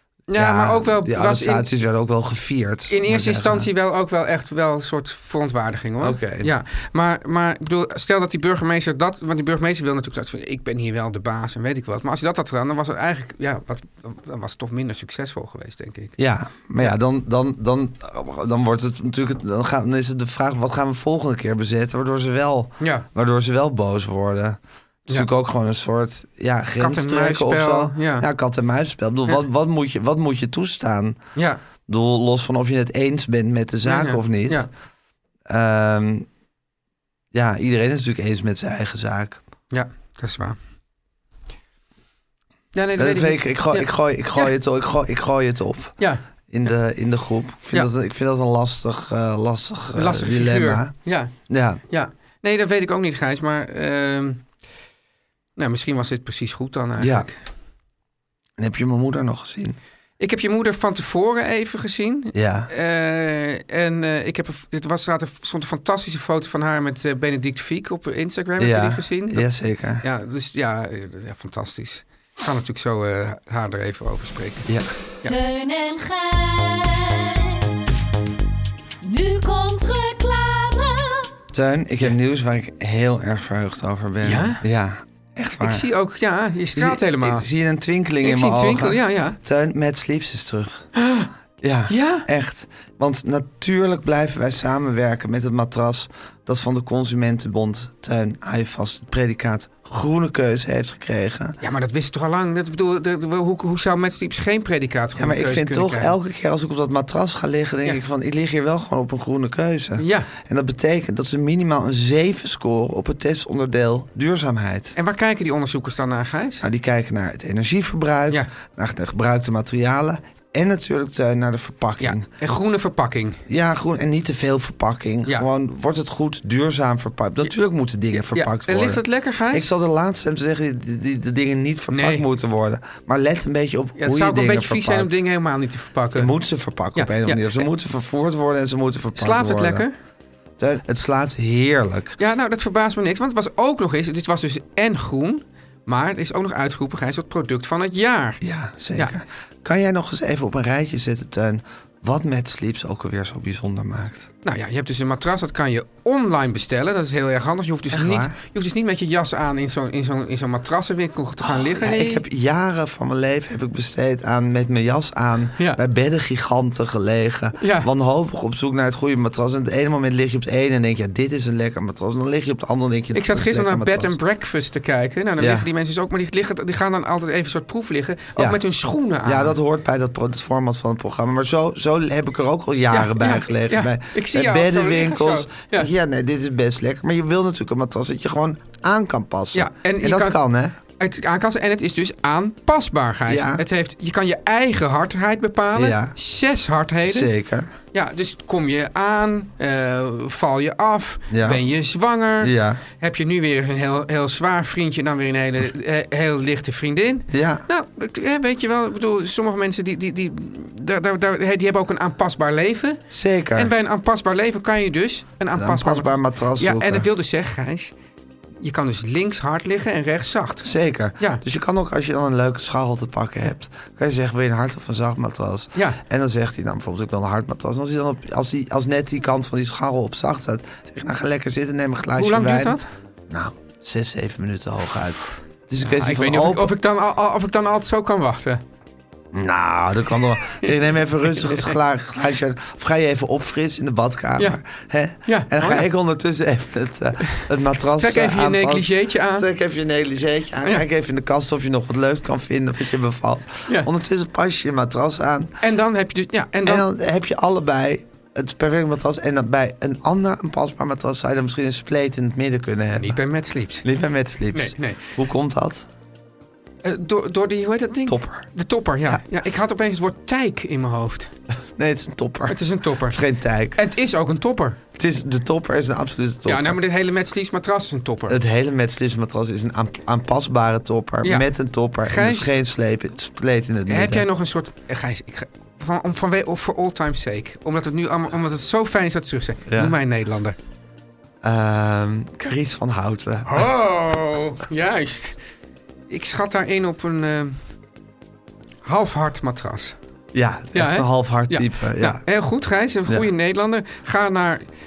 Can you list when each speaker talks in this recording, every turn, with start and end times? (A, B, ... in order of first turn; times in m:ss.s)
0:00.3-0:01.7 A
0:00.3-0:03.7 B
0:02.9-0:16.2 A
0:06.0-0:06.5 B
0:16.2-0:31.2 B
0:22.8-0:23.0 A
0:26.8-0:28.3 A
0:31.4-0:31.6 A
0:31.9-0:34.7 B
0:33.8-0:34.7 A
0:35.5-0:36.3 B
0:37.3-0:39.4 B
0:39.7-0:40.6 A
0:42.7-0:44.5 A
0:43.0-0:46.0 B
0:46.5-0:51.8 B
0:49.9-0:51.3 A
0:51.9-0:54.4 A
0:55.6-0:57.4 A
0:57.0-0:57.3 B
0:58.6-0:59.8 B
1:00.2-1:09.4 A
1:02.3-1:02.7 B
1:08.6-1:10.0 B
1:10.0-1:14.7 A
1:15.2-1:17.9 C
1:19.0-1:21.3 C
1:21.5-1:25.9 B
1:24.2-1:24.6 A
1:25.6-1:27.5 A
1:26.7-1:30.9 B
1:28.2-1:29.4 A
1:31.0-1:31.3 A
1:31.6-1:41.6 B
1:31.9-1:32.3 A
1:41.6-1:46.1 A
1:45.2-1:54.9 B
1:50.0-1:50.3 A
1:55.0-1:56.6 A
1:56.6-2:02.3 B
2:02.0-2:03.4 A
2:03.5-2:15.2 B
2:08.2-2:09.7 A
2:11.9-2:12.2 A
2:14.0-2:16.3 A
2:16.1-2:19.8 B
2:16.9-2:17.6 A
2:19.2-2:19.9 A
2:20.6-2:22.2 B
2:22.2-2:28.4 A
2:28.4-2:34.3 B
2:34.4-2:42.2 A
2:37.9-2:38.3 B
2:41.4-2:54.2 B
2:47.6-2:47.9 A
2:53.1-2:59.6 A
2:55.4-2:55.7 B
2:59.2-3:10.8 B
3:02.9-3:05.9 A
3:09.5-3:10.4 A
3:11.0-3:17.3 A
3:13.3-3:13.6 B
3:15.7-3:16.1 B
3:17.0-3:17.7 B
3:17.9-3:37.9 A
3:21.3-3:21.6 B
3:22.4-3:22.8 B
3:27.3-3:27.6 B
3:33.1-3:33.7 B
3:35.5-3:37.0 B
3:38.6-3:40.7 A
3:40.6-3:52.8 B
3:52.2-3:52.9 A
3:53.3-3:56.7 B
3:55.8-3:58.6 A
3:59.3-4:15.5 B
4:01.3-4:01.7 A
4:05.2-4:05.9 A
4:08.0-4:09.5 A
4:15.6-4:16.8 A
4:16.6-4:23.2 B
4:23.0-4:23.8 A
4:23.8-4:25.9 B
4:24.5-4:25.1 A
4:26.8-4:31.3 A
4:28.1-4:28.4 B
4:31.8-4:33.8 B
4:32.5-4:33.2 A
4:33.7-4:34.8 A
4:35.0-4:36.8 B
4:36.4-4:38.4 A
4:38.3-4:44.2 B
4:42.0-4:42.5 A
4:43.9-4:50.6 A
4:49.7-4:49.9 B
4:51.4-4:53.7 B
4:53.5-4:55.4 A
4:56.1-4:57.6 A
4:58.8-5:00.0 A
5:00.3-5:02.2 B
5:00.7-5:04.6 A